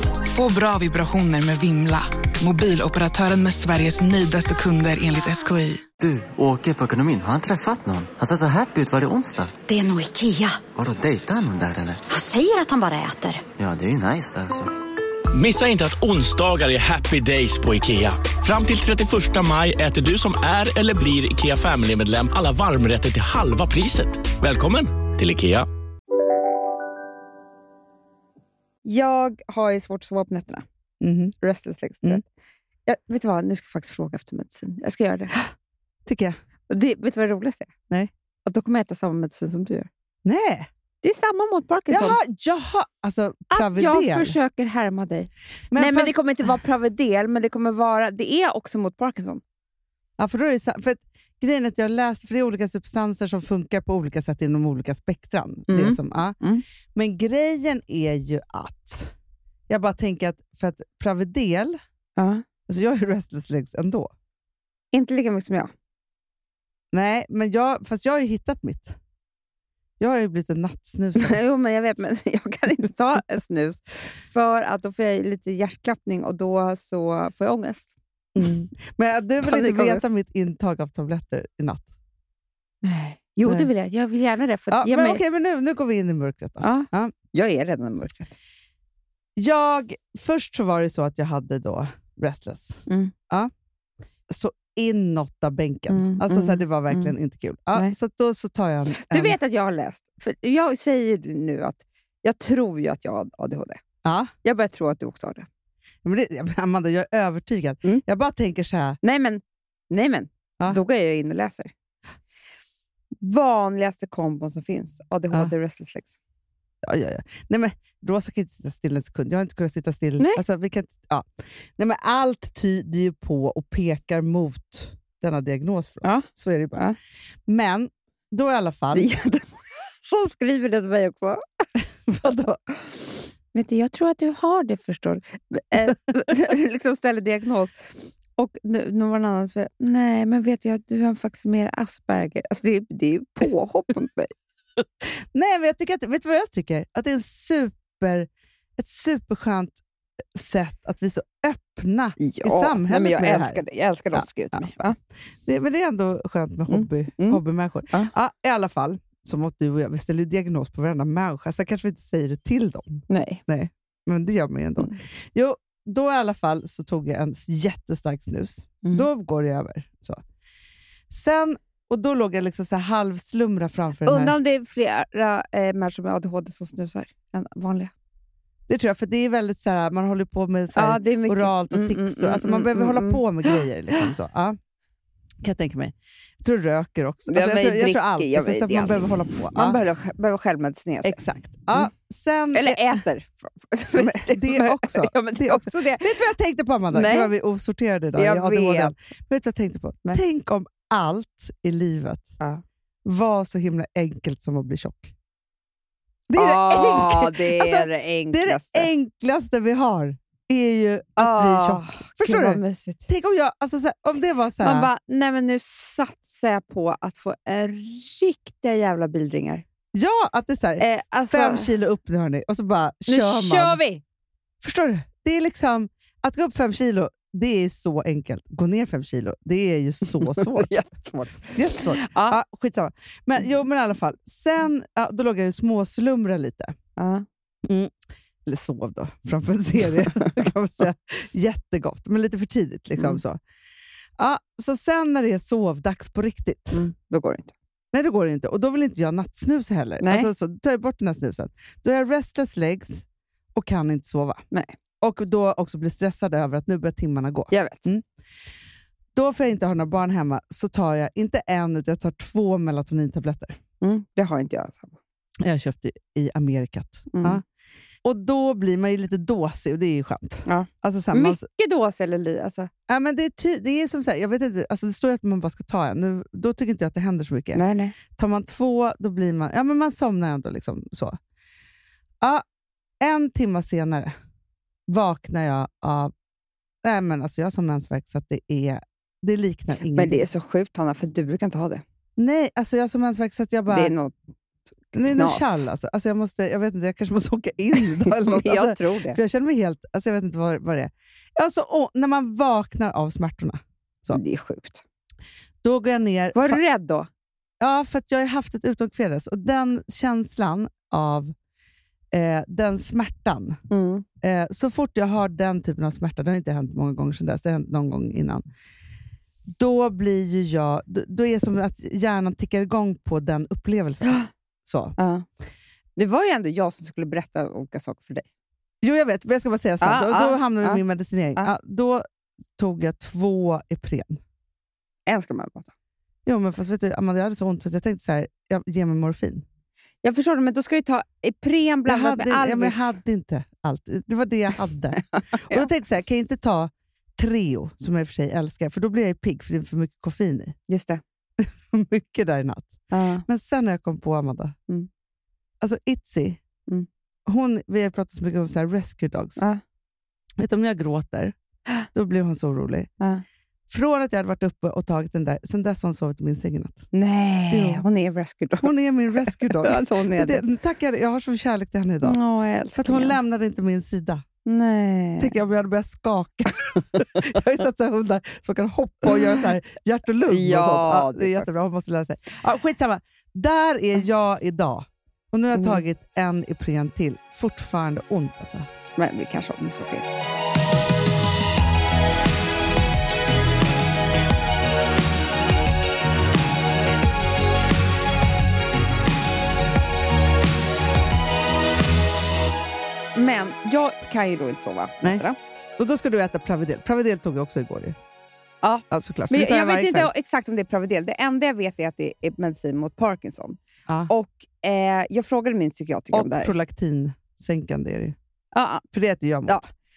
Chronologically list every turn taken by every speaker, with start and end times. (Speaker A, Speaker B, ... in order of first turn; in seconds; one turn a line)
Speaker A: 0.2-5.8
Speaker B: 6.0-9.5
Speaker C: 9.7-10.7
Speaker B: 10.7-12.0
Speaker C: 12.1-13.4
Speaker B: 13.6-14.7
Speaker D: 15.3-25.7
Speaker E: 28.8-30.6
Speaker F: 31.0-31.3
Speaker E: 31.4-32.2
Speaker E: 32.9-35.3
Speaker F: 36.0-36.4
Speaker E: 36.7-37.7
Speaker E: 38.4-39.9
Speaker F: 40.2-40.7
Speaker E: 41.0-42.2
Speaker F: 41.9-44.3
Speaker E: 43.5-49.4
Speaker F: 45.7-46.2
Speaker F: 50.2-56.4
Speaker E: 55.7-56.6
Speaker F: 56.9-59.1
Speaker F: 59.7-61.8
Speaker E: 62.2-62.4
Speaker F: 62.7-64.1
Speaker E: 64.9-65.7
Speaker F: 66.9-69.0
Speaker F: 70.0-71.4
Speaker E: 71.2-77.9
Speaker F: 78.3-81.9
Speaker E: 79.4-80.0
Speaker E: 82.8-85.2
Speaker F: 84.7-87.1
Speaker E: 86.6-88.3
Speaker F: 89.3-93.5
Speaker E: 92.9-93.1
Speaker F: 94.3-99.3
Speaker E: 95.9-97.1
Speaker E: 99.0-103.8
Speaker F: 104.0-104.3
Speaker E: 104.4-105.5
Speaker F: 106.0-109.0
Speaker E: 109.0-111.7
Speaker E: 113.2-116.1
Speaker F: 116.8-126.8
Speaker E: 126.0-127.0
Speaker F: 127.5-129.1
Speaker E: 128.9-131.4
Speaker F: 132.1-132.6
Speaker E: 133.5-137.7
Speaker E: 138.4-144.3
Speaker F: 145.0-149.8
Speaker F: 150.3-153.6
Speaker E: 152.2-154.9
Speaker F: 154.1-154.7
Speaker F: 155.4-170.2
Speaker E: 156.7-158.1
Speaker E: 163.1-163.4
Speaker E: 168.8-169.1
Speaker F: 171.1-174.3
Speaker E: 174.0-177.9
Speaker F: 178.7-184.6
Speaker E: 180.7-184.1
Speaker F: 185.4-189.8
Speaker E: 187.3-191.2
Speaker F: 191.0-193.0
Speaker E: 192.5-196.2
Speaker F: 193.9-202.3
Speaker E: 196.9-197.3
Speaker E: 198.2-198.9
Speaker F: 203.0-205.1
Speaker F: 206.3-214.9
Speaker E: 206.3-208.9
Speaker E: 211.2-213.1
Speaker E: 214.6-219.6
Speaker F: 219.9-223.8
Speaker E: 220.8-221.7
Speaker E: 223.1-224.0
Speaker F: 224.6-230.7
Speaker E: 230.2-232.4
Speaker F: 231.5-236.7
Speaker E: 237.0-237.2
Speaker F: 237.7-237.9
Speaker F: 238.4-243.4
Speaker F: 244.2-246.8
Speaker E: 246.7-247.5
Speaker F: 247.9-254.4
Speaker E: 250.0-250.3
Speaker F: 255.0-258.0
Speaker E: 257.5-257.9
Speaker F: 259.1-263.6
Speaker E: 263.8-264.9
Speaker F: 265.4-267.4
Speaker E: 267.1-267.4
Speaker F: 268.0-271.4
Speaker E: 270.4-272.7
Speaker F: 272.9-281.2
Speaker E: 277.5-278.0
Speaker F: 283.0-284.1
Speaker F: 284.9-286.1
Speaker F: 286.8-290.2
Speaker E: 289.8-291.8
Speaker F: 292.2-293.9
Speaker E: 293.7-294.1
Speaker E: 294.9-295.7
Speaker F: 294.9-304.2
Speaker E: 298.0-299.2
Speaker E: 304.1-304.8
Speaker F: 305.6-306.6
Speaker E: 306.3-307.1
Speaker F: 307.6-311.3
Speaker F: 312.1-313.6
Speaker E: 313.7-314.0
Speaker F: 314.2-318.4
Speaker F: 319.5-324.9
Speaker E: 325.0-325.2
Speaker E: 325.9-328.2
Speaker F: 328.8-332.0
Speaker E: 329.8-330.8
Speaker F: 332.6-334.2
Speaker E: 335.1-335.7
Speaker F: 336.2-339.4
Speaker E: 340.0-343.0
Speaker F: 341.9-350.6
Speaker E: 345.1-345.7
Speaker E: 350.7-351.0
Speaker F: 351.4-354.6
Speaker E: 352.9-353.2
Speaker F: 355.6-356.4
Speaker F: 357.2-359.4
Speaker F: 360.4-361.3
Speaker F: 361.9-362.9
Speaker F: 363.7-366.9
Speaker E: 366.9-368.7
Speaker F: 367.5-367.8
Speaker F: 368.6-372.2
Speaker E: 369.2-370.4
Speaker E: 372.0-373.2
Speaker F: 372.7-374.2
Speaker E: 374.4-375.3
Speaker F: 375.2-388.7
Speaker E: 376.7-377.2
Speaker E: 379.1-379.4
Speaker E: 380.3-381.5
Speaker E: 385.5-385.8
Speaker E: 389.0-390.0
Speaker E: 403.1-405.4
Speaker F: 405.8-408.0
Speaker E: 408.6-416.5
Speaker F: 408.9-410.1
Speaker F: 416.1-418.1
Speaker E: 418.5-418.8
Speaker F: 418.9-419.6